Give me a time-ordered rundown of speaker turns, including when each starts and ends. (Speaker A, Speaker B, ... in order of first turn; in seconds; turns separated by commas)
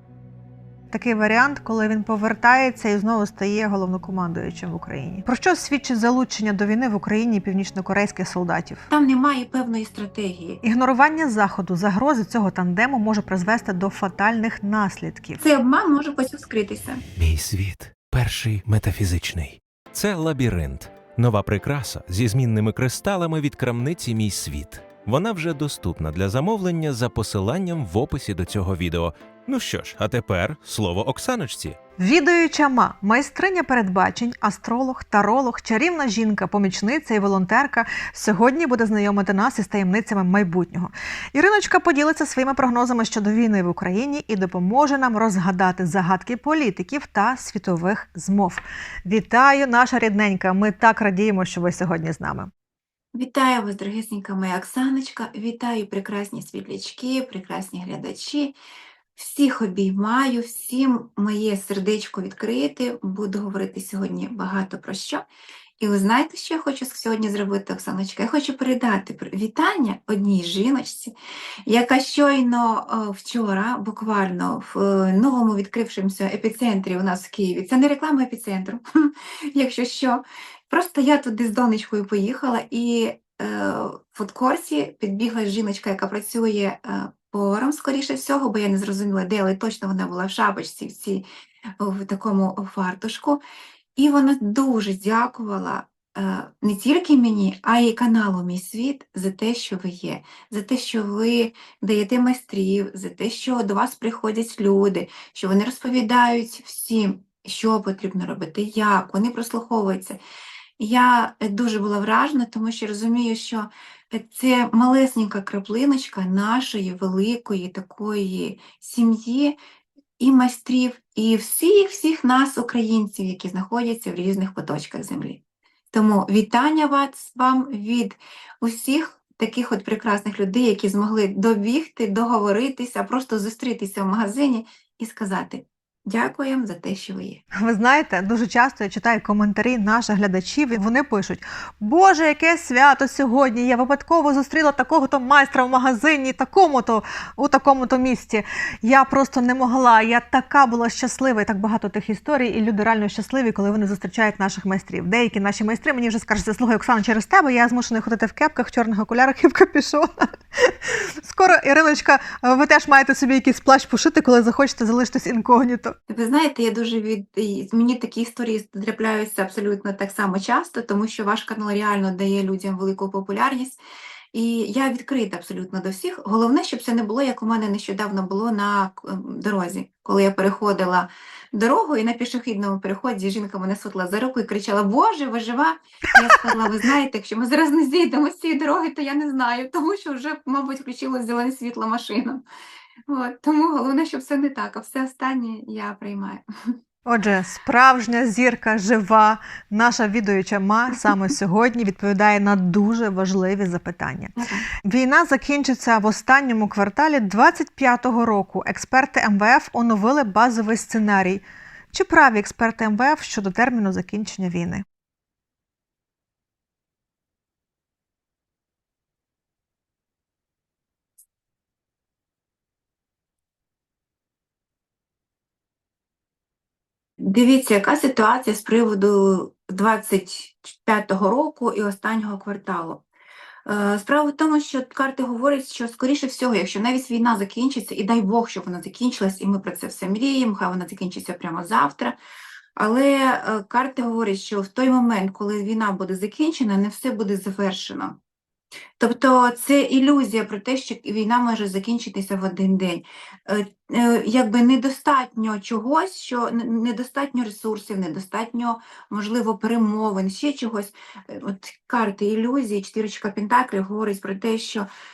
Speaker A: 0.9-8.9, Speaker B: 8.9-10.6, Speaker A: 10.6-15.4, Speaker B: 15.4-17.0, Speaker C: 17.1-31.8, Speaker A: 32.0-52.5, Speaker B: 53.1-58.5, Speaker B: 59.2-65.2, Speaker B: 65.8-71.1, Speaker B: 71.7-91.2, Speaker B: 91.8-93.4, Speaker B: 94.0-110.2, Speaker B: 110.8-119.6, Speaker B: 120.2-137.4, Speaker A: 137.5-166.0, Speaker B: 166.1-173.8, Speaker B: 174.3-192.4, Speaker B: 193.1-196.4, Speaker A: 197.1-214.8, Speaker B: 204.4-204.7, Speaker B: 227.2-233.0, Speaker B: 233.7-242.2, Speaker B: 242.8-248.2, Speaker B: 249.0-264.9